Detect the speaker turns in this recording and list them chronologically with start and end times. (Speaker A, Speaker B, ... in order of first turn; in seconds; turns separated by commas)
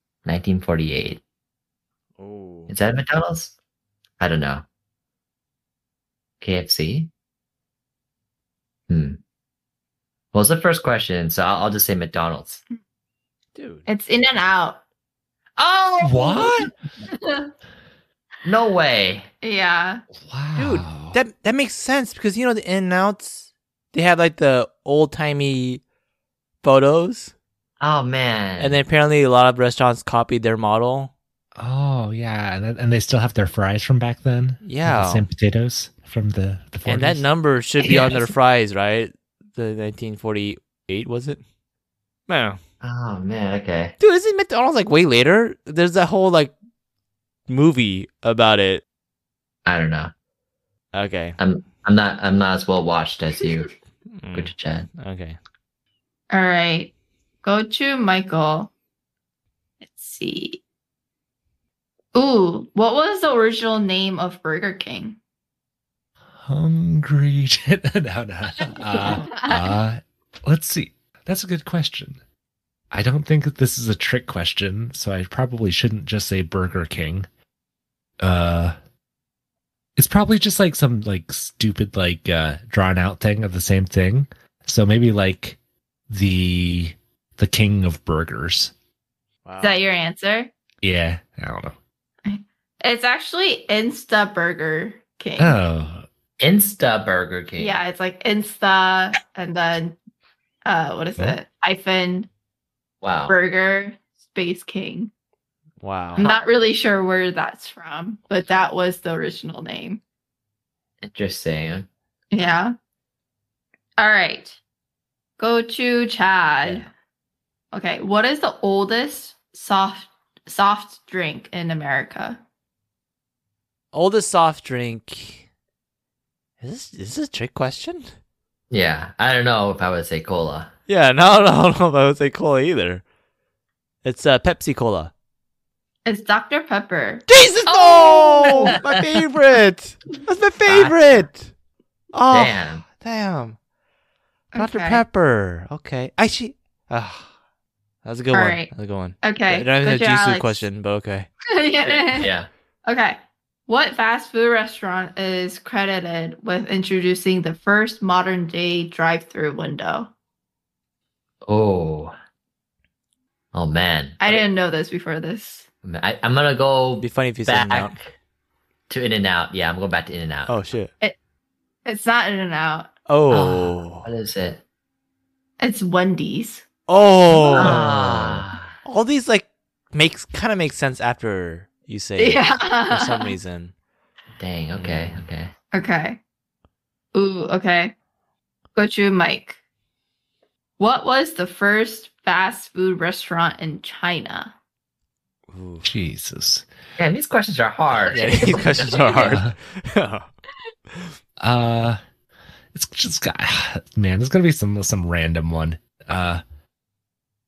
Speaker A: 0.3-1.2, Speaker B: 2.2-2.7, Speaker A: 2.7-3.5, Speaker A: 4.2-4.7, Speaker A: 6.4-7.1, Speaker A: 8.9-9.2, Speaker A: 10.3-12.6, Speaker B: 13.6-13.8, Speaker C: 13.9-14.8, Speaker A: 15.6-16.6, Speaker D: 16.0-16.7, Speaker C: 17.1-17.5, Speaker A: 18.4-19.3, Speaker C: 19.4-20.0, Speaker D: 20.2-21.2, Speaker B: 20.6-25.8, Speaker B: 26.6-27.3, Speaker A: 27.8-28.8, Speaker B: 28.6-31.1, Speaker D: 31.6-37.2, Speaker B: 34.6-35.2, Speaker B: 36.9-41.4, Speaker B: 42.3-42.6, Speaker A: 42.8-44.0, Speaker B: 44.0-46.5, Speaker B: 47.5-48.8, Speaker A: 49.7-50.1, Speaker B: 50.9-51.4, Speaker A: 51.4-53.7, Speaker B: 54.2-55.4, Speaker A: 54.3-54.9, Speaker C: 56.3-56.9, Speaker C: 57.4-58.7, Speaker C: 59.8-60.6, Speaker C: 62.1-65.2, Speaker D: 66.4-72.2, Speaker C: 68.6-69.8, Speaker D: 72.9-77.3, Speaker D: 78.2-78.8, Speaker D: 80.0-85.6, Speaker D: 86.1-88.7, Speaker B: 89.5-89.8, Speaker C: 89.6-90.5, Speaker D: 90.8-91.8, Speaker C: 92.3-95.6, Speaker D: 95.4-96.1, Speaker A: 96.4-97.8, Speaker C: 97.6-100.0, Speaker C: 100.7-102.3, Speaker A: 103.0-103.3, Speaker C: 103.3-105.1, Speaker B: 105.8-106.2, Speaker C: 106.2-110.0, Speaker A: 111.0-111.9, Speaker C: 112.3-112.7, Speaker C: 114.0-114.6, Speaker C: 115.4-116.9, Speaker C: 117.7-122.4, Speaker B: 123.9-125.5, Speaker B: 126.6-128.1, Speaker A: 128.7-130.7, Speaker B: 130.9-133.0, Speaker B: 134.0-135.1, Speaker C: 136.1-138.8, Speaker B: 137.3-141.5, Speaker A: 138.5-139.2, Speaker A: 140.7-141.3, Speaker B: 142.1-143.6, Speaker A: 142.3-142.8, Speaker C: 144.5-145.0, Speaker B: 144.6-147.3, Speaker B: 148.1-151.3, Speaker C: 148.3-150.7, Speaker C: 151.5-152.3, Speaker A: 152.2-152.5, Speaker C: 152.9-160.1, Speaker A: 161.5-162.1, Speaker A: 163.5-164.4, Speaker C: 164.2-165.7, Speaker A: 165.8-168.1, Speaker B: 167.0-167.9, Speaker A: 168.9-170.6, Speaker B: 170.5-170.9, Speaker C: 171.8-172.9, Speaker B: 173.1-174.1, Speaker A: 173.3-174.6, Speaker C: 175.6-176.7, Speaker B: 176.9-183.7, Speaker C: 177.3-177.8, Speaker A: 177.5-178.8, Speaker D: 177.8-178.1, Speaker C: 182.2-183.3, Speaker A: 184.4-185.5, Speaker C: 185.7-186.2, Speaker C: 187.1-187.9, Speaker C: 188.8-189.6, Speaker C: 190.8-194.5, Speaker B: 195.5-195.9, Speaker D: 195.8-196.7, Speaker A: 197.0-199.4, Speaker B: 198.1-200.3, Speaker D: 201.4-202.0, Speaker D: 202.7-206.4